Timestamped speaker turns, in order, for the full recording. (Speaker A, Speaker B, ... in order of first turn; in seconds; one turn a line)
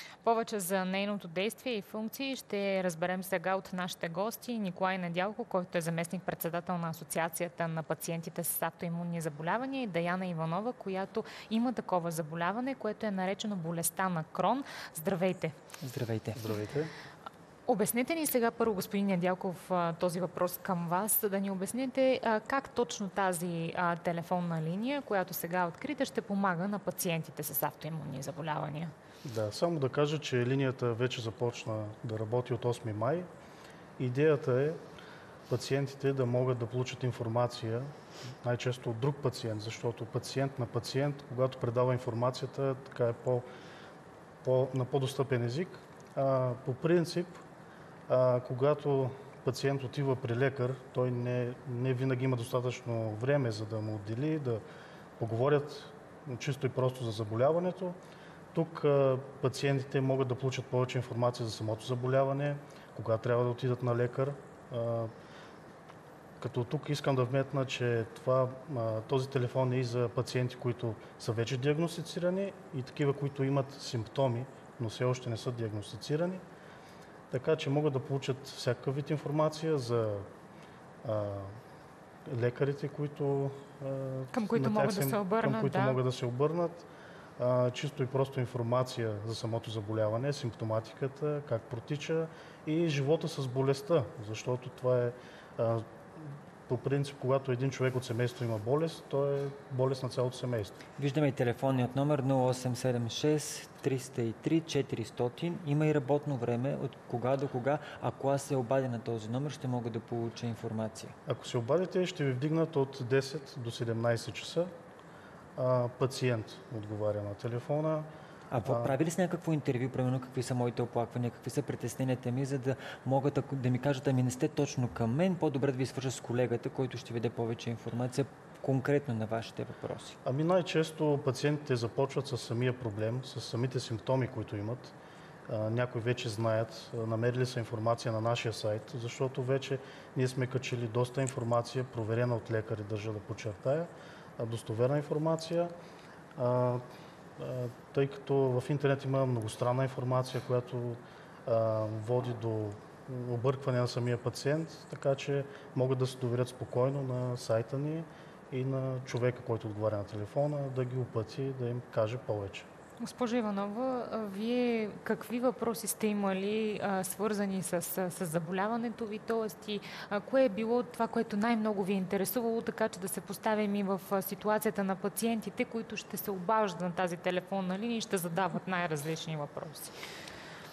Speaker A: 0.2-15.6
Speaker B: 15.8-16.4
Speaker C: 16.3-16.9
Speaker A: 17.7-28.9
Speaker C: 29.2-33.2
Speaker C: 34.0-34.8
Speaker C: 35.5-37.9
Speaker C: 38.4-43.5
Speaker C: 44.4-47.4
Speaker C: 48.1-54.6
Speaker C: 55.2-58.0
Speaker C: 58.5-65.1
Speaker C: 66.4-76.4
Speaker C: 77.3-80.3
Speaker C: 81.0-81.5
Speaker C: 82.3-100.8
Speaker A: 84.3-86.0
Speaker B: 101.0-111.1
Speaker C: 111.3-114.7
Speaker C: 115.5-118.1
Speaker B: 118.5-130.2
Speaker C: 118.6-118.9
Speaker C: 130.2-134.9
Speaker C: 135.5-145.7
Speaker C: 146.3-146.8
Speaker C: 147.4-162.7
Speaker A: 163.0-179.9